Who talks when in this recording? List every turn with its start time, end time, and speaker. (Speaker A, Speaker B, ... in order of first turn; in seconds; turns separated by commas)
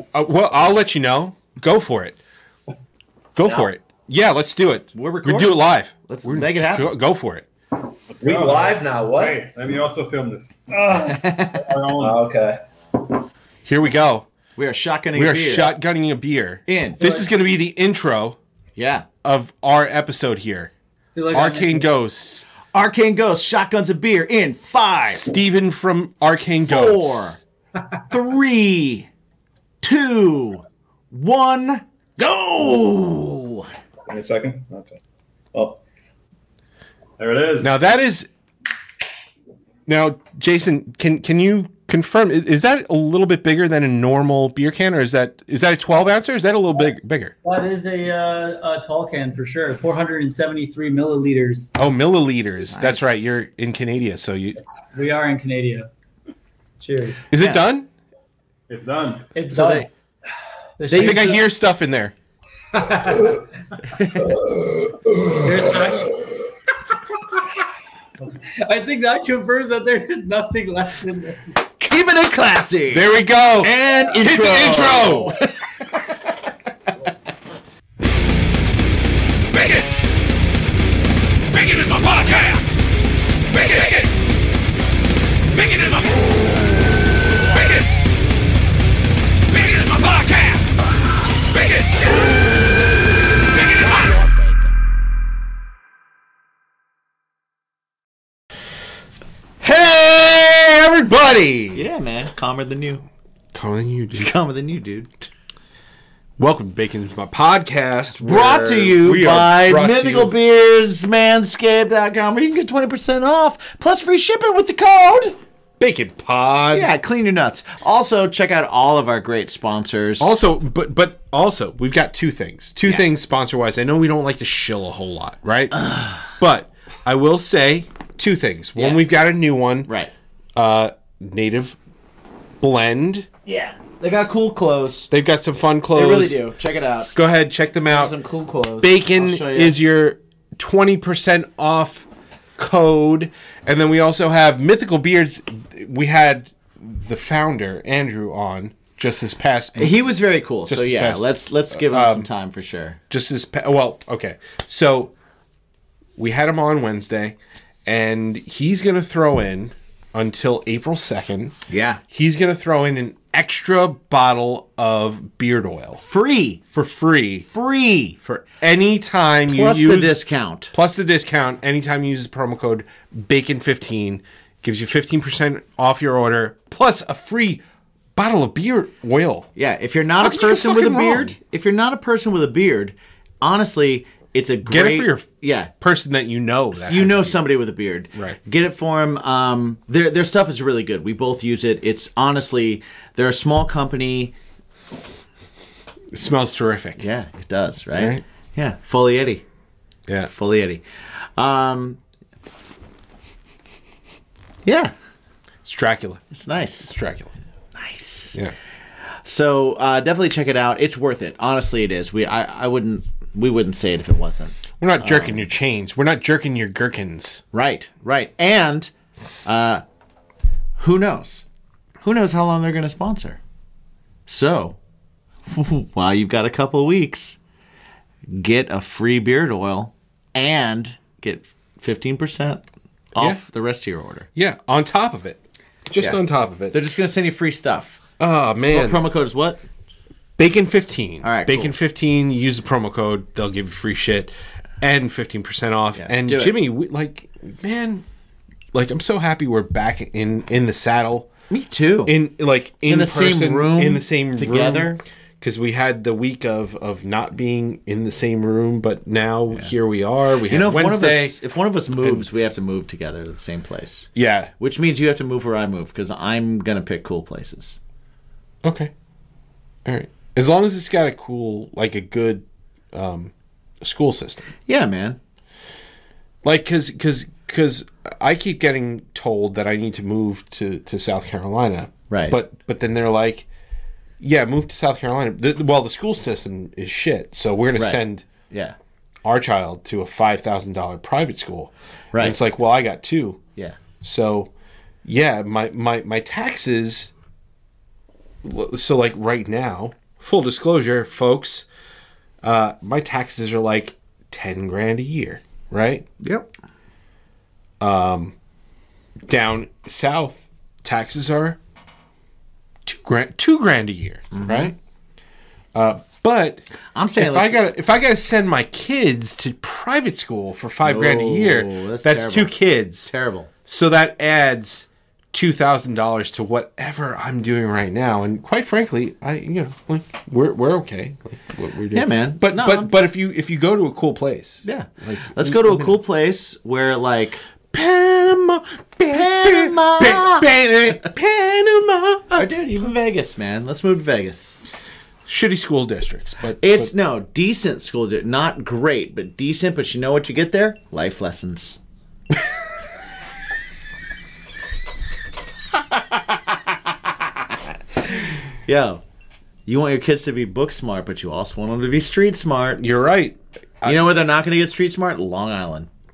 Speaker A: 0.1-2.2, Speaker A: 3.4-7.5, Speaker B: 4.9-6.9, Speaker C: 8.1-12.2, Speaker D: 8.2-9.5, Speaker B: 10.9-11.7, Speaker D: 12.0-12.6, Speaker A: 13.7-14.3, Speaker B: 14.6-15.7, Speaker A: 15.1-18.4, Speaker B: 16.7-17.0, Speaker E: 17.0-17.3, Speaker B: 18.8-19.1, Speaker A: 19.2-20.7, Speaker E: 21.1-21.9, Speaker A: 21.3-22.5, Speaker B: 22.7-25.3, Speaker A: 25.1-27.4, Speaker B: 26.7-27.4, Speaker B: 28.1-29.1, Speaker B: 29.8-33.7, Speaker D: 34.1-35.0, Speaker C: 34.3-34.7, Speaker D: 35.5-35.8, Speaker C: 37.2-37.7, Speaker A: 37.6-38.3, Speaker A: 39.9-47.3, Speaker E: 47.4-51.7, Speaker A: 51.8-54.6, Speaker B: 52.7-53.3, Speaker E: 54.8-55.9, Speaker E: 56.8-57.3, Speaker A: 57.3-57.9, Speaker B: 57.4-57.6, Speaker C: 58.7-59.3, Speaker E: 59.3-59.9, Speaker B: 59.5-59.9, Speaker E: 60.8-61.4, Speaker A: 60.9-62.1, Speaker E: 62.7-63.5, Speaker B: 63.9-64.3, Speaker E: 65.3-66.3, Speaker E: 68.4-71.5, Speaker B: 71.8-73.0, Speaker A: 72.9-75.4, Speaker B: 73.6-75.5, Speaker A: 81.5-82.6, Speaker A: 83.5-84.0, Speaker A: 85.6-86.0, Speaker A: 89.8-90.7, Speaker B: 91.8-92.3, Speaker B: 93.7-94.7, Speaker A: 99.6-101.9, Speaker B: 101.7-103.0, Speaker A: 103.5-104.3, Speaker B: 104.2-105.3, Speaker A: 106.4-110.3, Speaker B: 108.2-115.4, Speaker A: 115.8-116.9, Speaker B: 116.7-120.3, Speaker A: 120.2-129.9, Speaker B: 125.8-126.2, Speaker B: 128.8-129.0, Speaker B: 129.9-130.1, Speaker A: 130.6-131.8, Speaker A: 132.6-133.3, Speaker B: 133.5-135.1, Speaker A: 135.1-136.4, Speaker B: 135.9-137.1, Speaker A: 137.1-138.1, Speaker B: 137.9-139.8, Speaker A: 138.8-150.0, Speaker B: 149.8-153.0, Speaker A: 150.7-152.3, Speaker A: 153.1-155.1, Speaker A: 156.2-161.6, Speaker B: 161.7-162.0, Speaker A: 162.1-166.0, Speaker B: 166.0-166.6, Speaker A: 166.7-167.5, Speaker B: 167.5-168.2, Speaker A: 168.2-170.2, Speaker B: 169.5-170.7, Speaker A: 170.7-177.6, Speaker A: 178.2-179.5, Speaker B: 179.6-185.7, Speaker A: 180.2-181.4, Speaker A: 184.7-187.5, Speaker B: 186.7-194.3, Speaker A: 196.1-197.0, Speaker B: 197.0-199.4, Speaker A: 197.9-198.2, Speaker B: 200.3-200.8, Speaker B: 201.4-202.0, Speaker B: 204.7-204.9, Speaker A: 205.7-206.2, Speaker B: 206.3-206.9, Speaker A: 206.9-207.3, Speaker B: 207.8-208.4, Speaker B: 209.2-215.4, Speaker A: 214.8-217.4, Speaker B: 217.5-218.9, Speaker B: 219.4-219.8, Speaker B: 220.8-221.5, Speaker B: 222.0-223.4, Speaker B: 224.3-224.8, Speaker B: 225.5-227.4, Speaker B: 228.3-234.3, Speaker A: 234.3-236.8, Speaker B: 236.7-238.0, Speaker A: 238.2-239.0, Speaker B: 238.6-239.6, Speaker A: 240.4-248.1, Speaker B: 241.2-241.8, Speaker B: 245.9-246.5, Speaker A: 248.7-251.3, Speaker B: 251.5-252.2, Speaker A: 252.1-261.4, Speaker B: 252.9-255.0, Speaker B: 260.5-267.8, Speaker A: 264.1-264.5, Speaker A: 268.6-268.9, Speaker A: 269.9-274.5, Speaker B: 274.7-275.2, Speaker A: 276.4-283.5, Speaker B: 282.1-282.4, Speaker A: 284.2-288.3, Speaker B: 287.8-288.8, Speaker A: 289.2-293.4, Speaker A: 294.0-294.5, Speaker A: 295.1-297.1, Speaker A: 298.4-301.7, Speaker A: 302.4-306.1, Speaker B: 306.2-306.5, Speaker A: 307.8-308.3, Speaker A: 309.3-311.6, Speaker A: 312.9-314.8, Speaker B: 314.3-314.7, Speaker A: 315.8-323.1, Speaker B: 316.9-317.6, Speaker B: 320.8-322.5, Speaker B: 323.1-323.5, Speaker A: 323.7-336.0, Speaker B: 331.9-332.9, Speaker B: 334.6-337.4, Speaker A: 337.7-342.5, Speaker B: 339.1-340.5, Speaker B: 342.3-344.6, Speaker A: 345.3-346.9, Speaker B: 346.6-351.8, Speaker B: 358.1-359.0, Speaker B: 359.7-362.8, Speaker A: 362.7-364.1, Speaker B: 363.9-365.9